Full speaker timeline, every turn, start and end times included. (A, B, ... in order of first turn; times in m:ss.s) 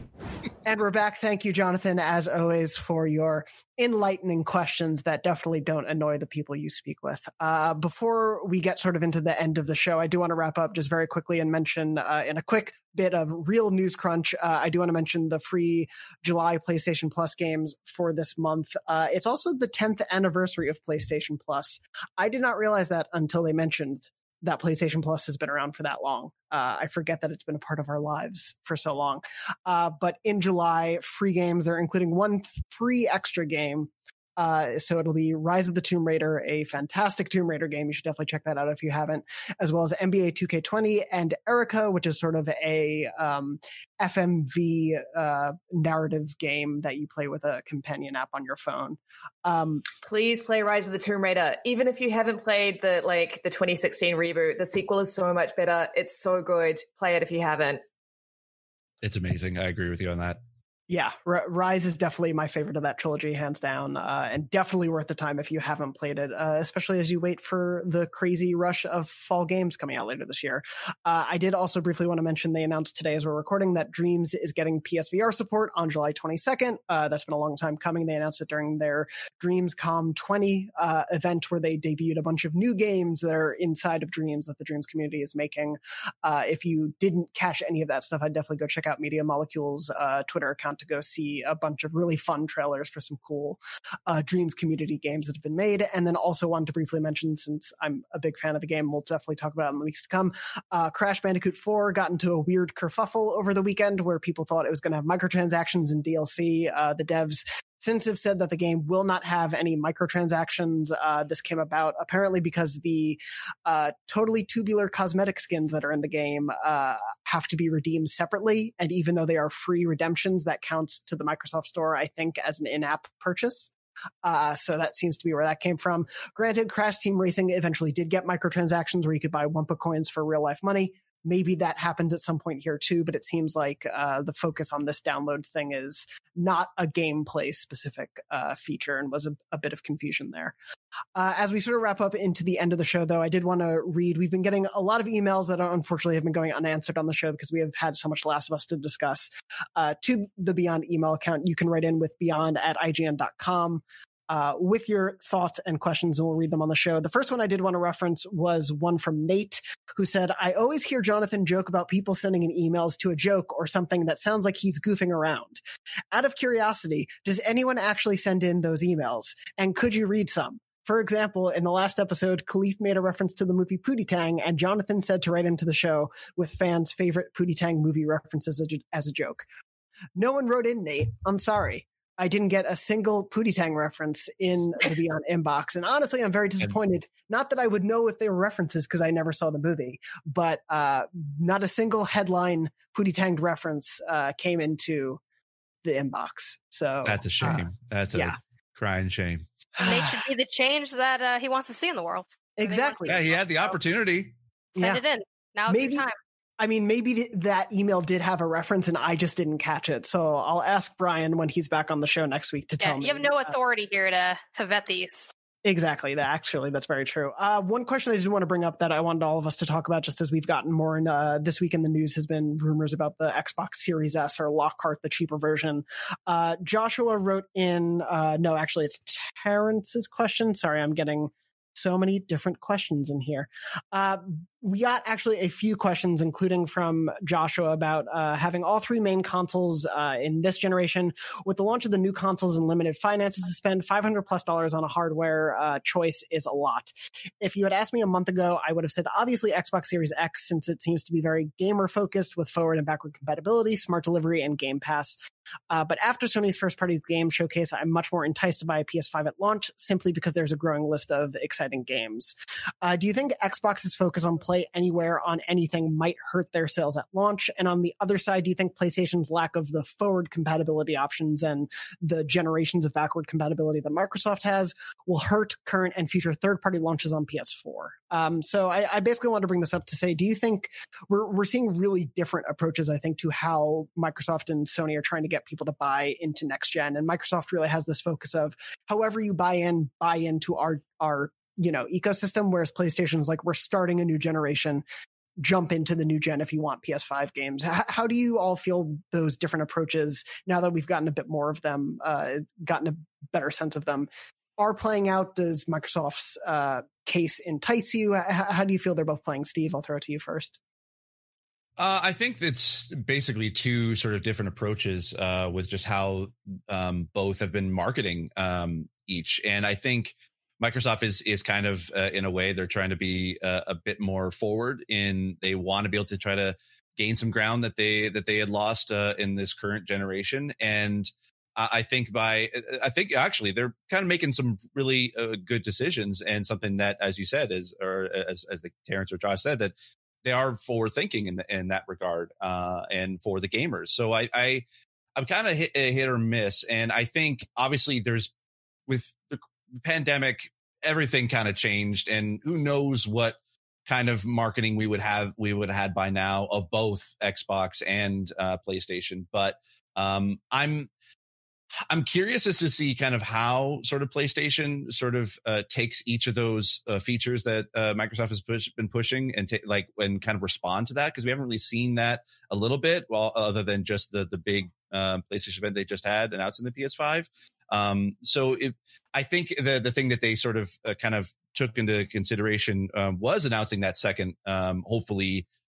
0:00.6-0:49.9 A
0:50.0-0:57.8 B
0:59.0-1:00.4 C
1:00.9-2:03.7 A
2:04.2-2:20.5 A
2:21.1-2:45.6 A
2:46.1-2:59.4 A
3:00.2-3:15.2 A
3:15.8-3:18.4 A
3:17.0-3:19.4 C
3:19.8-3:20.2 A
3:19.8-3:23.4 D
3:22.6-3:23.3 A
3:23.0-3:24.3 C
3:24.8-3:26.1 D
3:25.7-3:26.0 A
3:26.6-3:33.5 A
3:32.8-3:35.3 D
3:35.6-4:15.2 A
4:15.7-4:54.8 A
4:55.4-5:10.6 A
5:11.8-5:44.6 C
5:45.2-5:48.3 C
5:48.9-6:00.9 C
6:01.9-6:25.4 C